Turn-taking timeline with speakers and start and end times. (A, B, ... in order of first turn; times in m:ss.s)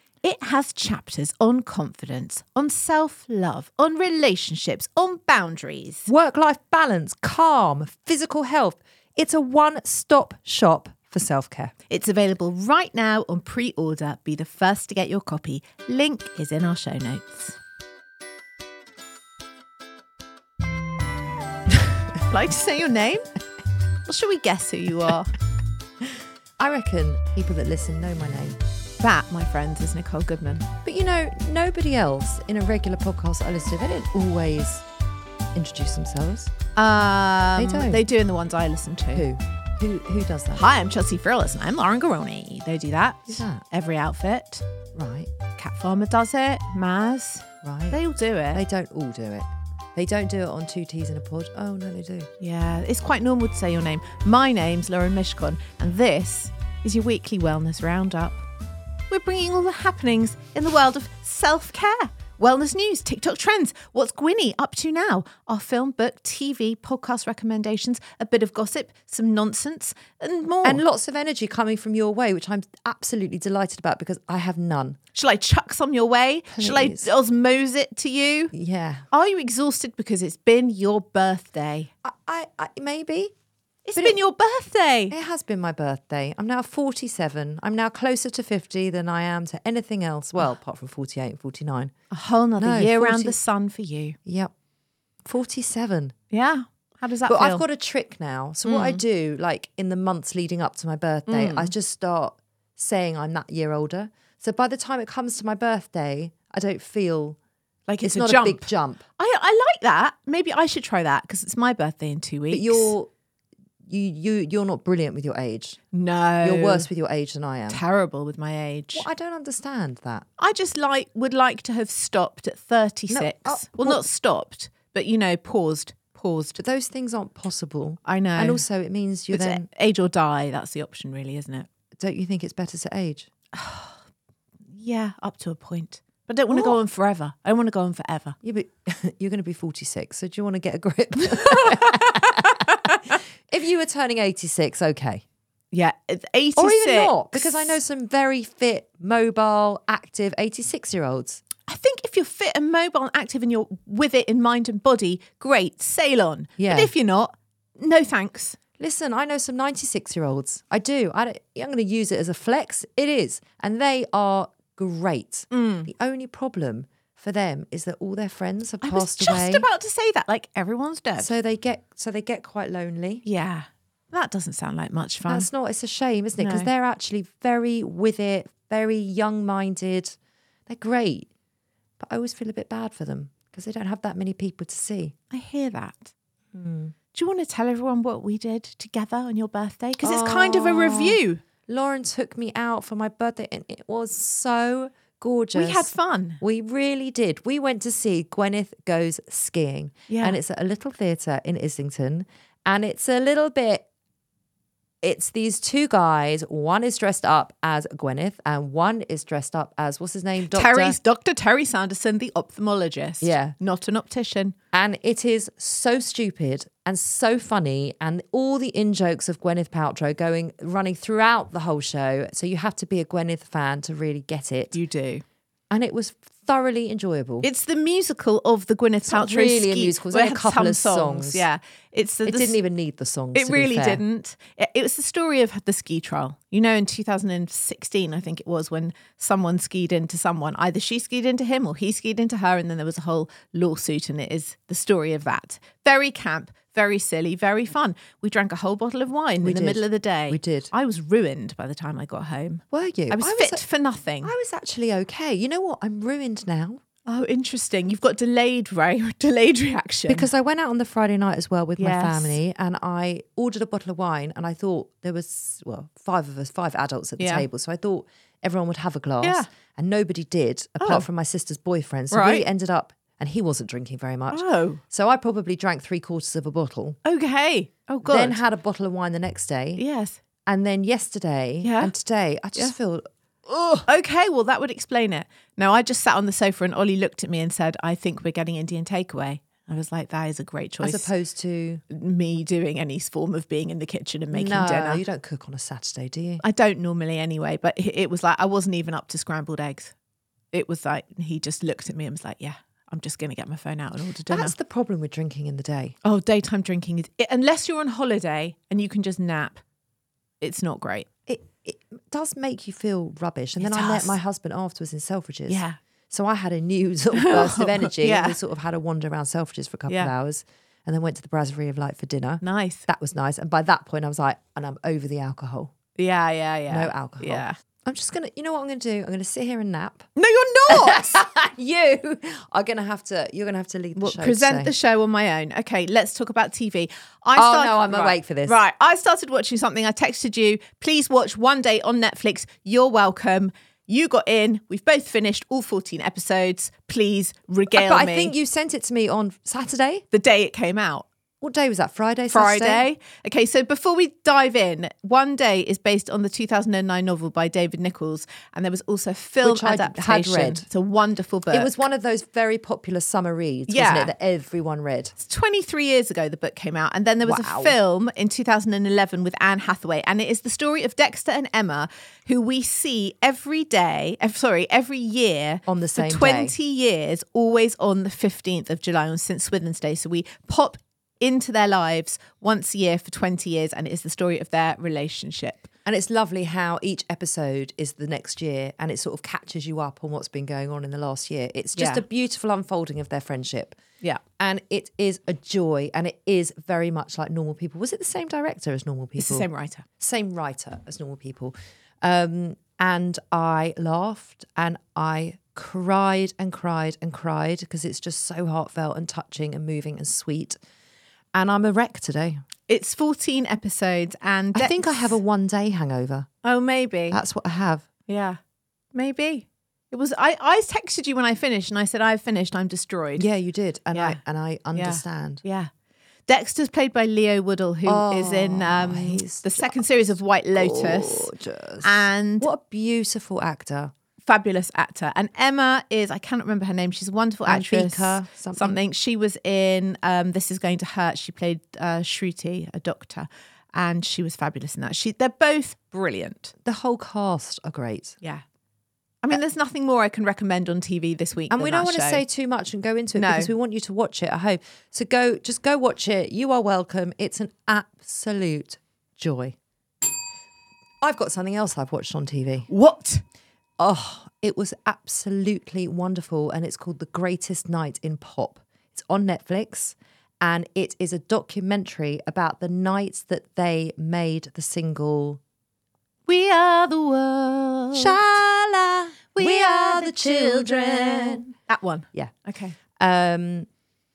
0:00.2-0:06.1 A
0:06.1-0:11.7 B
0:11.9-0:17.6 A
0:22.3-0:23.3 A
0:24.0-0:25.3 A
0:26.6-0:28.6 B
0:29.0-0:30.7 A
0:30.8-0:34.8 B
0:35.5-0:36.5 B
0:36.8-0:39.3 A
0:37.6-0:38.0 B
0:39.1-0:40.7 B
0:40.6-0:44.6 A
0:43.3-0:43.6 B
0:44.9-0:45.3 B
0:45.6-0:48.6 A
0:47.6-0:48.0 B
0:48.5-0:52.3 B
0:52.4-0:58.4 A
0:59.1-1:10.8 A
1:10.6-1:15.0 B
1:15.1-1:18.5 A
1:16.5-1:17.1 B
1:18.5-1:19.1 B
1:19.1-1:21.9 A
1:22.0-1:23.3 B
1:23.8-1:25.1 A
1:25.1-1:31.9 B
1:32.1-1:34.2 A
1:32.6-1:33.4 B
1:34.2-1:34.5 B
1:35.2-1:36.1 B
1:36.3-1:37.6 A
1:37.3-1:47.4 B
1:38.6-1:39.0 A
1:41.3-1:41.7 A
1:47.9-1:52.9 A
1:48.0-1:49.0 B
1:52.5-1:53.1 B
1:53.9-1:55.8 B
1:55.9-1:56.9 A
1:56.4-1:57.8 B
1:57.7-1:59.1 A
1:58.9-2:00.2 B
2:00.4-2:06.6 A
2:03.1-2:04.0 B
2:06.6-2:09.7 B
2:08.0-2:08.6 A
2:09.3-2:11.7 A
2:12.0-2:13.3 B
2:13.5-2:14.0 A
2:14.7-2:18.4 A
2:16.5-2:16.8 B
2:18.4-2:25.2 B
2:21.5-2:22.0 A
2:25.7-2:27.8 A
2:26.6-2:31.4 B
2:31.7-2:38.6 A
2:36.6-2:36.9 B
2:38.8-2:49.6 B
2:45.5-2:45.9 A
2:48.8-2:51.3 A
2:51.2-2:53.2 B
2:53.2-2:55.5 A
2:55.3-3:00.1 B
2:56.4-2:56.7 A
3:00.7-3:01.3 B
3:02.0-3:05.1 B
3:05.3-3:06.1 A
3:06.5-3:06.9 B
3:07.1-3:11.4 A
3:10.0-3:23.8 B
3:15.5-3:16.4 A
3:20.1-3:20.4 A
3:25.0-3:31.0 B
3:30.5-3:34.5 A
3:33.2-3:33.6 B
3:34.7-3:44.8 B
3:44.7-3:45.2 A
3:45.7-3:47.5 B
3:47.4-3:52.6 A
3:49.0-3:51.4 B
3:52.2-3:54.0 B
3:53.3-4:14.3 A
4:09.4-4:10.7 B
4:12.7-4:13.6 B
4:14.2-4:16.8 B
4:17.0-4:20.3 A
4:20.1-4:37.0 B
4:21.8-4:22.4 A
4:27.2-4:27.4 A
4:29.2-4:29.5 A
4:30.8-4:31.0 A
4:32.1-4:32.5 A
4:34.3-4:34.8 A
4:37.0-4:38.4 A
4:38.0-4:39.8 B
4:39.8-4:40.2 A
4:40.5-4:43.9 B
4:41.6-4:41.9 A
4:43.9-4:51.1 A
4:50.8-4:51.8 B
4:51.9-4:55.0 A
4:54.3-4:56.4 B
4:56.4-4:59.9 A
5:00.5-5:04.5 A
5:04.3-5:06.0 B
5:06.0-5:09.6 A
5:10.4-5:11.1 A
5:11.3-5:25.7 B
5:13.6-5:14.1 A
5:15.5-5:15.8 A
5:17.1-5:18.4 A
5:22.4-5:22.8 A
5:26.0-5:27.5 A
5:26.7-5:30.1 B
5:30.2-5:31.2 A
5:30.7-5:34.7 B
5:34.0-5:48.3 A
5:37.3-5:38.6 B
5:47.7-5:50.0 B
5:50.1-5:51.0 A
5:51.4-5:52.8 B
5:52.3-6:01.7 A
5:59.4-6:00.6 B
6:01.5-6:05.1 B
6:03.7-6:04.1 A
6:05.2-6:25.7 A
6:07.2-6:07.7 B
6:15.7-6:16.5 B
6:25.8-6:33.8 B
6:31.7-6:32.0 A
6:34.4-6:39.5 B
6:39.2-6:39.8 A
6:40.0-6:50.6 B
6:51.3-6:52.4 B
6:52.7-6:55.2 A
6:54.5-6:56.3 B
6:56.4-6:57.2 A
6:57.1-6:57.9 B
6:58.1-6:58.4 A
6:58.9-7:03.2 A
7:03.2-7:05.4 B
7:03.9-7:04.2 A
7:04.7-7:05.7 A
7:06.3-7:11.3 A
7:07.8-7:13.9 B
7:11.8-7:12.5 A
7:14.2-7:26.5 A
7:17.4-7:18.8 B
7:26.6-7:28.2 B
7:29.2-7:32.2 A
7:31.5-7:39.6 B
7:33.1-7:33.5 A
7:41.0-7:42.7 B
7:42.7-7:43.2 A
7:43.8-7:55.4 B
7:56.3-7:58.4 A
7:57.9-8:01.4 B
7:59.4-8:02.8 A
8:03.0-8:03.7 B